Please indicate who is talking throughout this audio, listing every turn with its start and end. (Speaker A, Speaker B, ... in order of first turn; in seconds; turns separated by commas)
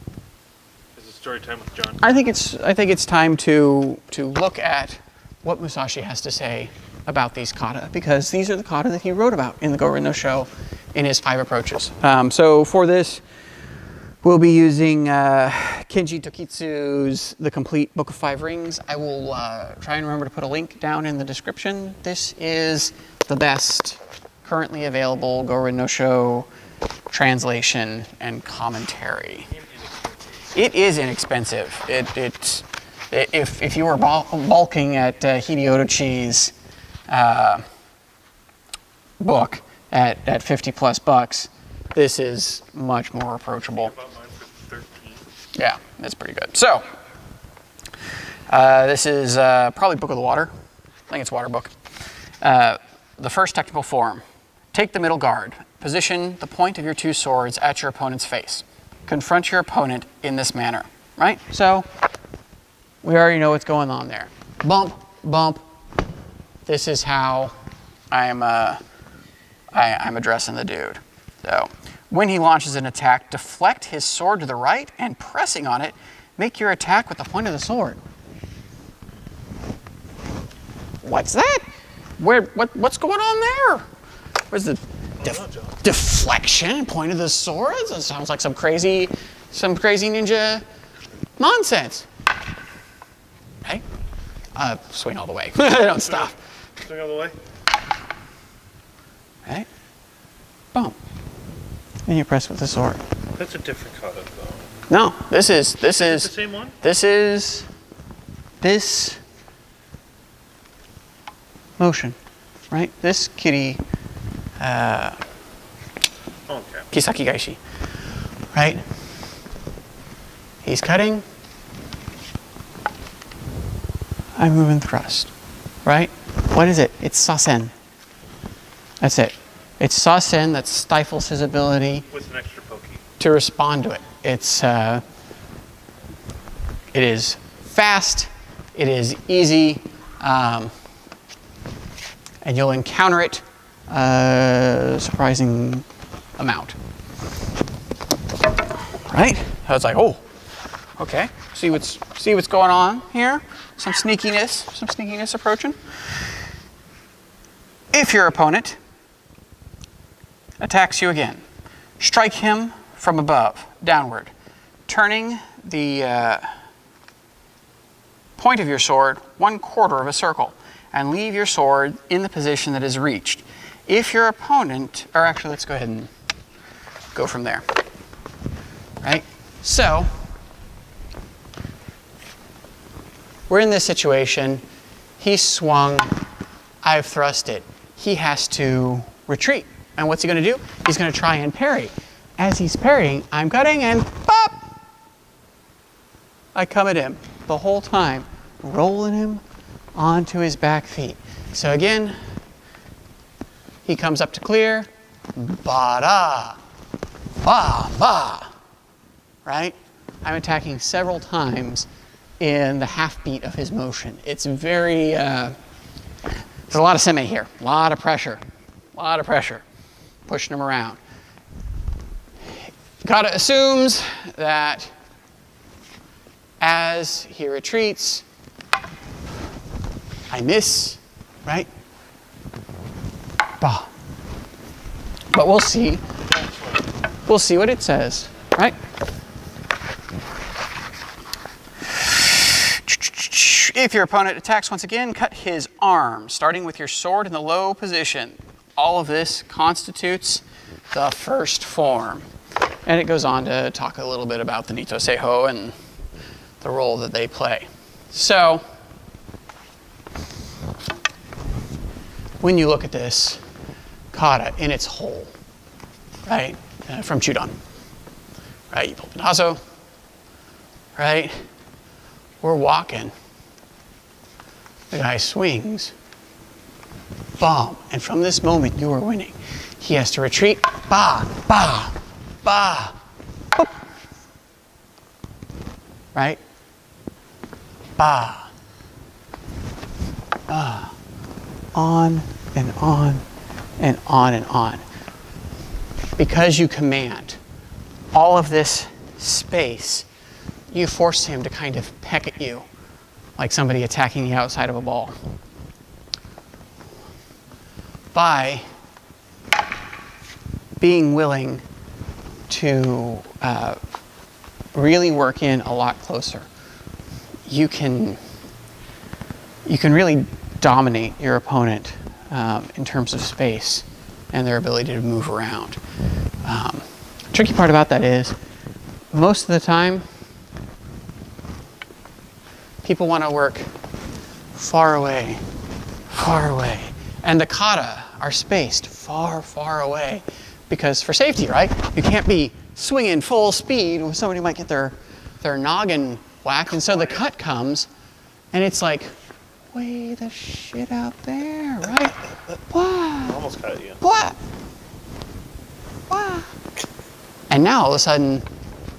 Speaker A: 0.9-2.1, Speaker B: 2.0-13.2, Speaker B: 14.2-26.5, Speaker B: 27.1-29.5, Speaker A: 29.5-30.3, Speaker B: 30.5-36.5, Speaker B: 37.1-37.6, Speaker B: 39.2-43.9, Speaker A: 43.7-45.2, Speaker B: 45.5-46.9, Speaker B: 48.5-50.5, Speaker B: 51.1-51.7, Speaker B: 52.4-61.9, Speaker B: 63.0-65.6, Speaker B: 66.7-67.5, Speaker B: 68.1-68.8, Speaker B: 69.7-78.0, Speaker B: 81.0-81.6, Speaker B: 82.2-83.8, Speaker B: 84.5-90.6, Speaker A: 85.2-85.8, Speaker B: 91.4-92.1, Speaker B: 94.5-96.3, Speaker A: 96.8-97.4, Speaker B: 102.1-103.0, Speaker A: 103.3-104.7, Speaker B: 104.9-107.7, Speaker A: 106.0-106.8, Speaker B: 108.6-109.2, Speaker B: 111.8-112.2, Speaker B: 112.7-113.8, Speaker B: 114.6-115.2, Speaker A: 116.5-116.9, Speaker B: 116.9-117.6, Speaker B: 118.5-118.8, Speaker B: 120.6-121.2, Speaker B: 124.4-125.3, Speaker B: 125.8-127.7, Speaker B: 129.0-132.1, Speaker A: 132.1-133.0, Speaker B: 133.2-135.0, Speaker B: 136.9-140.7, Speaker B: 142.4-145.8, Speaker B: 146.4-146.8, Speaker B: 149.1-150.2, Speaker B: 151.0-155.8, Speaker B: 157.9-158.8, Speaker B: 160.6-161.4, Speaker B: 162.0-164.3, Speaker B: 164.9-166.5, Speaker B: 168.4-176.1, Speaker B: 177.1-177.7, Speaker B: 179.0-180.1, Speaker B: 183.5-184.6, Speaker B: 185.2-186.1, Speaker B: 186.8-194.6, Speaker B: 196.5-199.4, Speaker B: 199.9-202.2, Speaker B: 203.8-206.6, Speaker B: 207.4-208.5, Speaker B: 209.4-211.9, Speaker B: 212.4-215.6, Speaker B: 216.7-218.4, Speaker B: 218.9-219.6, Speaker B: 220.3-221.0, Speaker B: 222.5-224.9, Speaker B: 226.6-228.2, Speaker B: 230.3-231.7, Speaker B: 233.6-233.9, Speaker B: 235.3-236.0, Speaker A: 236.3-236.8, Speaker B: 237.3-238.8, Speaker B: 241.9-252.3, Speaker B: 252.8-255.7, Speaker B: 256.6-258.6, Speaker B: 262.4-263.4, Speaker B: 264.1-265.3, Speaker B: 266.2-267.5, Speaker B: 268.7-269.6, Speaker B: 271.0-271.4, Speaker B: 272.4-273.1, Speaker B: 274.9-275.9, Speaker B: 277.4-283.0, Speaker B: 286.1-286.4, Speaker B: 288.0-288.5, Speaker B: 290.5-290.9, Speaker B: 291.7-293.2, Speaker B: 293.8-294.8, Speaker B: 296.2-297.4, Speaker B: 298.1-300.1, Speaker B: 300.7-302.6, Speaker B: 303.4-305.1, Speaker B: 308.1-308.6, Speaker B: 310.8-311.6, Speaker B: 312.5-313.8, Speaker B: 314.7-316.5, Speaker B: 317.5-318.2, Speaker B: 319.6-325.8, Speaker B: 326.4-328.4, Speaker B: 329.1-330.0, Speaker B: 332.8-333.7, Speaker B: 334.5-335.4, Speaker B: 336.1-347.9, Speaker B: 348.5-349.1, Speaker B: 349.7-352.2, Speaker B: 352.7-353.4, Speaker A: 353.2-354.0, Speaker B: 354.0-354.4, Speaker B: 356.1-356.5, Speaker B: 357.5-358.4